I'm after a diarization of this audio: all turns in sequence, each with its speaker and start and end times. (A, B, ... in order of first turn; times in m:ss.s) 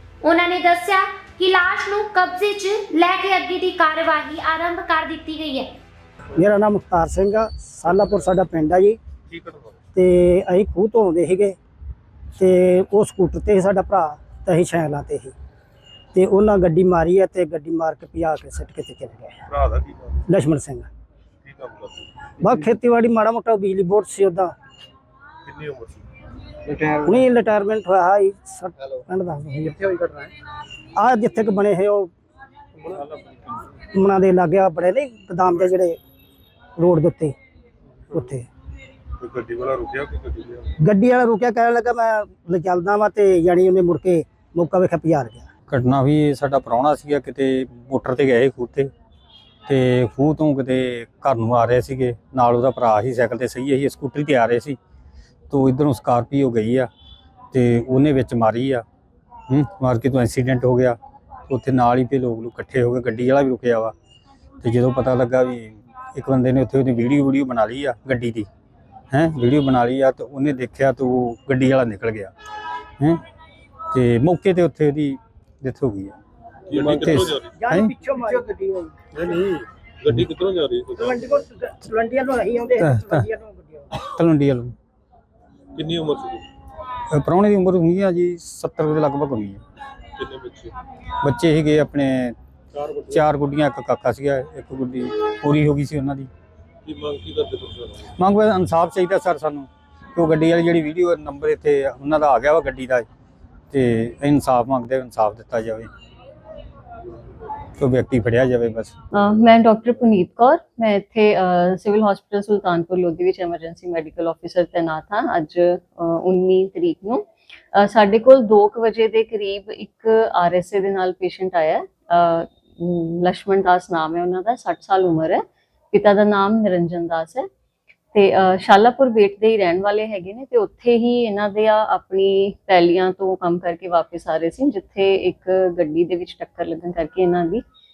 0:00.2-0:05.7 A
0:06.4-0:09.0 B
0:09.3-0:09.8 C
0:09.9-0:11.6 B
0:12.4-0:15.3 B
0:16.1-0:19.4 B
0:19.5-0:20.2 C
0:20.3-0:20.9 B
0:21.4-0:22.1 C
0:22.4-0:24.5 B
0:25.4-0:26.0 C
0:27.0-0:29.9 B
0:31.0-0:32.1 B
0:32.9-0:33.3 C
0:33.9-0:36.0 B
0:36.8-0:37.4 B
0:38.1-0:38.4 B
0:39.2-0:40.8 C
0:40.8-0:45.5 B
0:45.7-0:48.9 D
0:49.7-0:54.8 D
0:55.5-0:56.9 D
0:57.5-0:58.8 D
0:59.5-1:01.0 D
1:01.5-1:03.9 D
1:04.6-1:08.5 D
1:09.1-1:12.3 D
1:13.9-1:16.2 D
1:16.7-1:17.6 C
1:16.7-1:17.9 D
1:17.6-1:18.9 B
1:19.1-1:21.2 C
1:21.0-1:23.9 B
1:22.8-1:23.2 D
1:23.9-1:24.7 D
1:25.7-1:26.4 C
1:27.1-1:29.6 D
1:30.2-1:30.7 C
1:31.2-1:32.3 D
1:32.7-1:33.2 C
1:33.1-1:36.3 D
1:36.8-1:38.1 C
1:38.2-1:43.0 D
1:43.7-1:45.9 D
1:47.8-1:48.9 D
1:49.1-2:07.5 E
2:08.1-2:17.6 E